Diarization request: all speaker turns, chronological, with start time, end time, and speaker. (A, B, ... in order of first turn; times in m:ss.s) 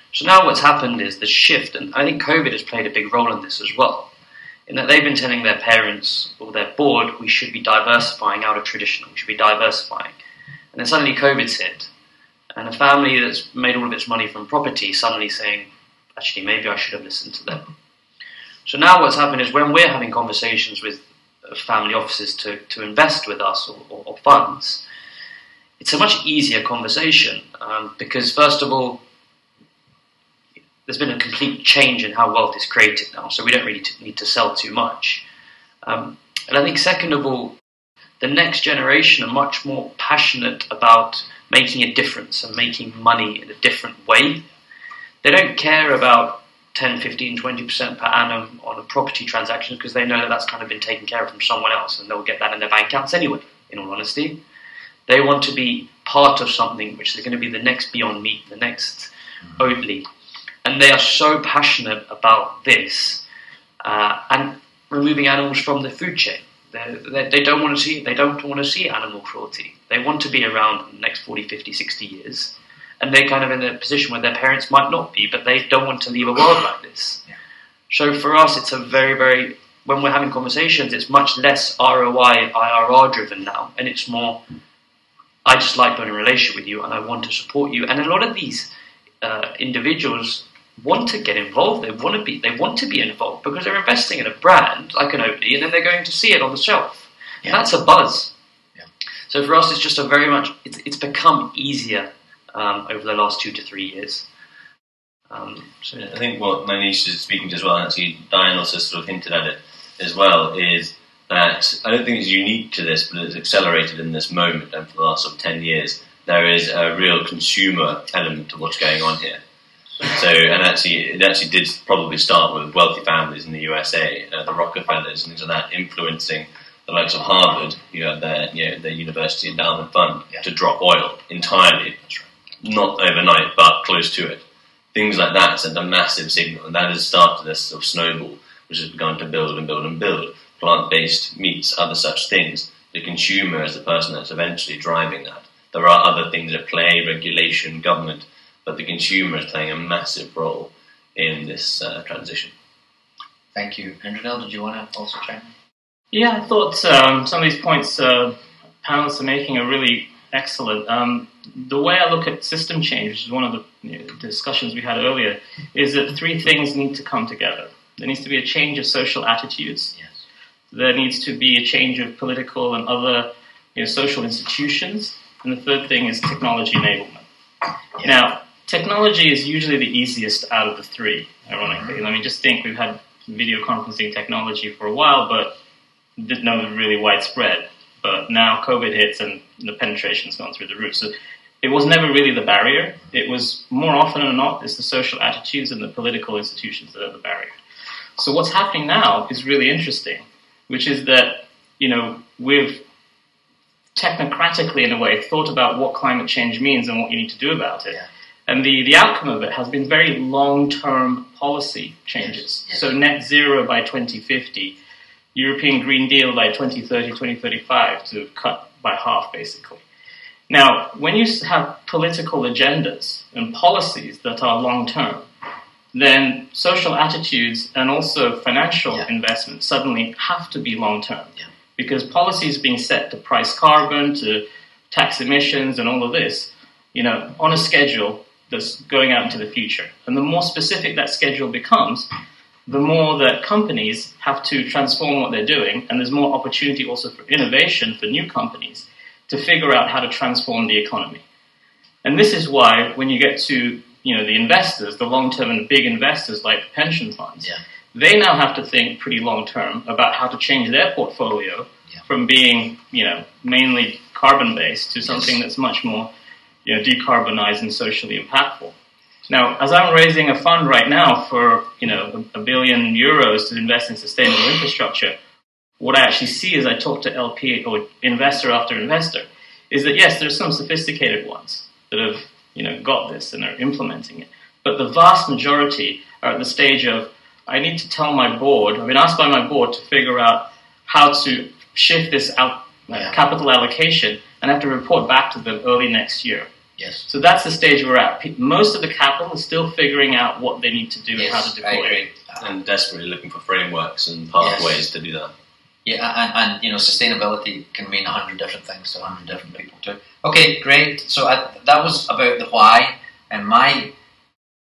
0:00.1-0:04.1 A
0:04.7-0:10.2 A
0:10.7-0:11.9 A
0:12.5-0:17.7 A
0:18.6-0:24.8 A
0:25.8-0:29.0 A
0:30.8-0:35.2 A
0:35.8-0:37.6 A
0:38.2-0:44.5 A
0:45.2-0:54.4 A
0:55.1-1:00.0 A
1:00.6-1:03.2 A
1:03.8-1:17.2 A
1:17.9-1:24.4 A
1:25.4-1:38.3 A
1:39.3-1:44.3 A
1:45.3-1:46.2 A
1:46.0-1:59.4 B
2:00.0-2:12.0 B
2:12.6-2:32.5 B
2:33.5-2:35.5 C
2:36.1-2:49.9 D
2:50.7-2:57.2 D
2:58.0-3:05.6 D
3:01.6-3:02.0 C
3:06.2-3:17.5 D
3:18.2-3:22.8 D
3:23.9-3:34.8 D
3:32.2-3:32.9 C
3:35.3-3:39.8 D
3:40.5-3:45.2 D
3:45.9-4:02.1 D
4:02.7-4:11.2 D
4:12.0-4:26.1 D
4:25.0-4:25.3 C
4:26.6-4:28.7 D
4:29.3-4:35.2 D
4:35.8-4:56.5 D
4:52.9-4:53.2 C
4:56.8-4:57.0 C
4:57.1-5:02.0 D
5:01.1-5:02.5 C
5:02.4-5:05.3 B
5:04.4-5:04.9 C
5:05.8-5:13.9 C